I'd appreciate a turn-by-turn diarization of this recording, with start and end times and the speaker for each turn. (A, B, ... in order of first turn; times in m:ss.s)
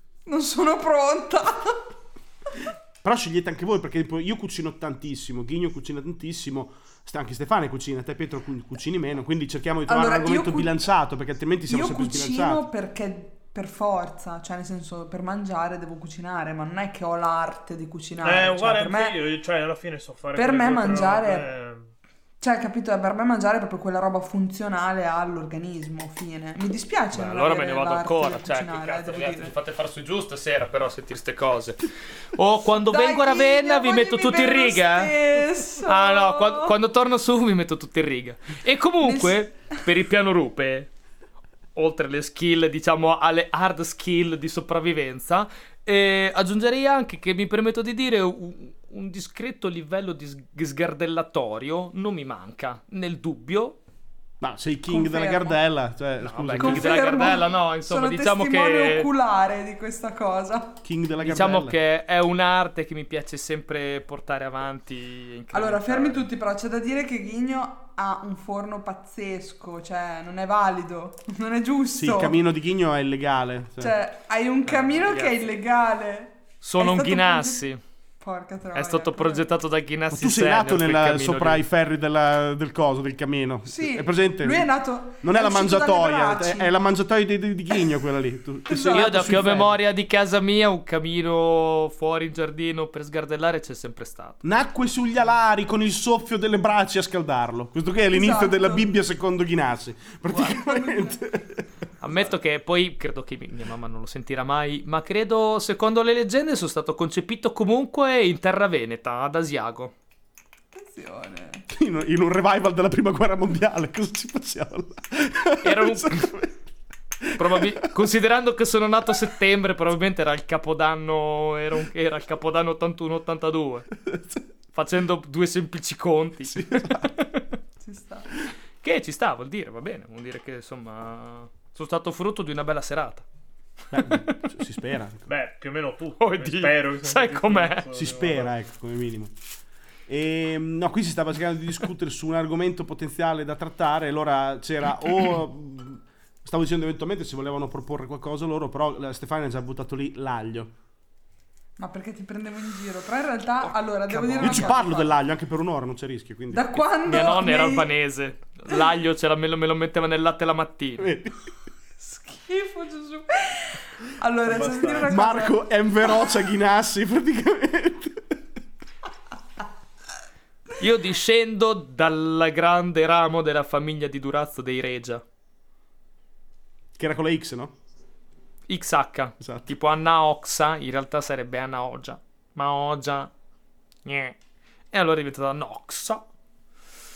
0:00.2-0:01.8 A
0:03.0-0:12.6 B
0:09.8-0:10.7 A
0:11.7-0:19.2 A
0:18.2-0:21.9 C
0:20.3-0:21.5 A
0:22.4-0:29.5 A
0:27.1-0:40.9 D
0:32.9-0:36.8 A
0:39.0-0:39.8 A
0:41.7-0:53.8 D
0:54.4-0:57.2 B
0:54.9-0:55.6 A
0:56.2-0:59.1 D
0:56.6-1:00.8 A
1:00.8-1:01.8 B
1:01.2-1:06.3 D
1:05.5-1:12.4 A
1:12.0-1:14.0 B
1:13.8-1:17.6 A
1:14.6-1:15.5 D
1:16.6-1:17.8 D
1:18.2-1:19.4 A
1:18.7-1:21.6 D
1:20.1-1:24.7 B
1:23.6-1:26.7 A
1:25.2-1:29.7 B
1:28.7-1:29.6 A
1:28.9-1:34.4 D
1:34.4-1:42.3 B
1:38.1-1:38.9 A
1:40.3-1:41.2 A
1:42.0-1:49.9 D
1:50.7-1:51.6 A
1:51.7-1:56.6 B
1:55.6-1:56.3 D
1:57.2-1:57.9 B
1:57.4-2:03.9 D
2:04.7-2:07.5 D
2:06.4-2:07.2 B
2:07.8-2:08.3 A
2:08.8-2:13.2 D
2:13.9-2:15.3 B
2:14.0-2:14.4 D
2:15.3-2:18.5 C
2:16.2-2:17.8 D
2:17.9-2:19.3 B
2:20.1-2:30.7 B
2:31.8-2:35.1 A
2:34.1-2:34.8 D
2:34.4-2:36.8 B
2:36.5-2:37.9 A
2:37.0-2:41.1 D
2:41.0-2:41.4 B
2:42.0-2:45.7 A
2:44.4-2:45.1 C
2:45.0-2:48.4 B
2:50.8-2:55.2 D
2:57.0-2:57.7 B
2:58.7-3:03.3 D
2:59.4-2:59.6 B
3:04.0-3:04.4 D
3:04.9-3:06.2 D